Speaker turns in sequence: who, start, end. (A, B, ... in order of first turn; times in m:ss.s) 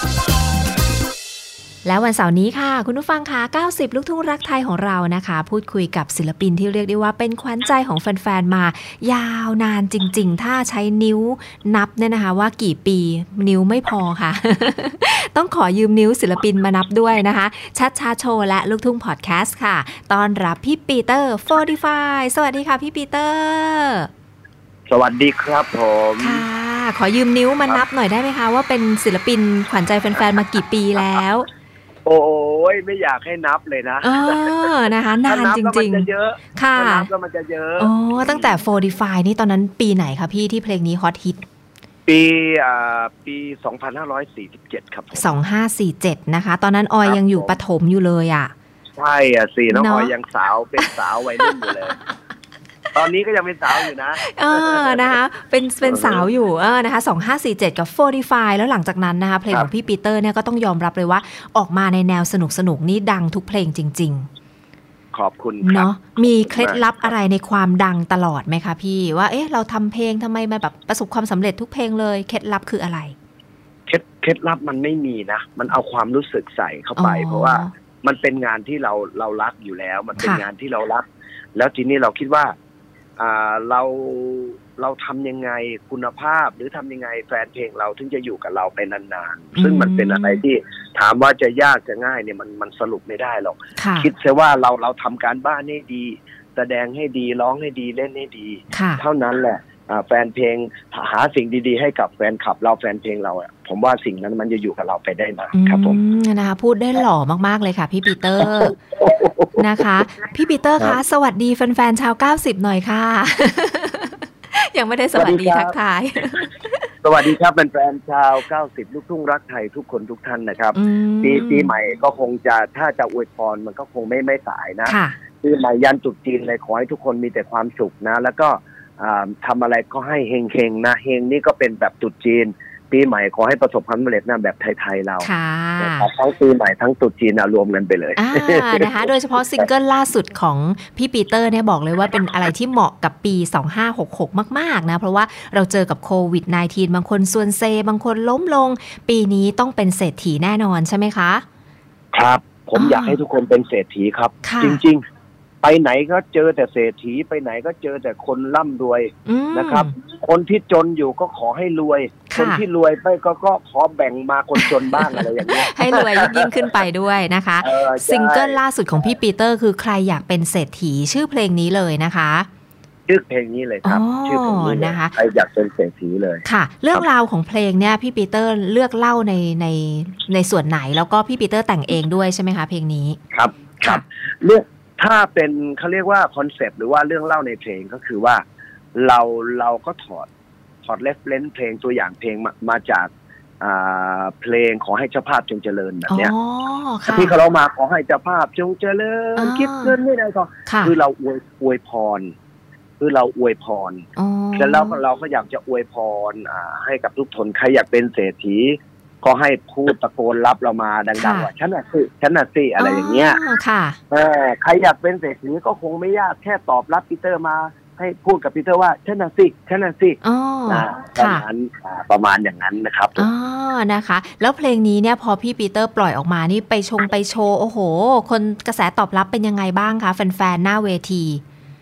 0:01.8-0:24.1 A
0:24.9-0:26.5 B
0:26.2-0:31.5 A
0:32.0-0:34.7 B
0:34.0-0:37.1 A
0:35.2-0:38.6 B
0:37.8-0:41.4 A
0:42.1-0:45.3 B
0:45.1-0:48.5 A
0:47.0-0:47.6 B
0:49.0-0:52.0 B
0:49.7-0:50.1 A
0:50.8-0:51.7 A
0:52.9-0:55.2 B
0:54.1-1:04.3 A
0:55.8-0:56.3 B
1:05.1-1:06.8 B
1:05.6-1:13.1 A
1:13.9-1:22.5 B
1:17.0-1:17.7 A
1:20.2-1:20.4 A
1:23.2-1:46.0 B
1:29.6-1:30.4 A
1:33.8-1:34.1 A
1:38.7-1:39.0 A
1:45.5-1:48.8 A
1:48.4-1:50.0 B
1:49.6-1:56.9 A
1:55.2-1:55.8 B
1:57.0-2:15.3 B
2:00.7-2:01.7 A
2:04.9-2:05.2 A
2:15.2-2:16.1 A
2:15.8-2:19.1 B
2:18.2-2:31.4 A
2:32.1-2:35.0 B
2:32.8-2:33.2 A
2:34.4-2:34.8 A
2:35.6-2:46.5 B
2:39.2-2:39.9 A
2:42.3-2:42.6 A
2:44.6-2:52.5 A
2:47.6-2:48.6 B
2:53.1-2:57.1 B
2:53.8-2:55.1 A
2:56.4-3:03.2 A
3:03.3-3:08.4 B
3:08.9-3:10.3 B
3:10.8-3:16.3 B
3:16.1-3:17.4 A
3:17.1-3:22.3 B
3:19.4-3:19.9 A
3:20.7-3:20.9 A
3:23.0-3:24.0 B
3:24.2-3:25.0 A
3:24.6-3:33.4 B
3:31.2-3:31.5 A
3:32.8-3:34.0 A
3:34.1-3:43.3 B
3:40.2-3:41.4 A
3:43.2-3:51.4 A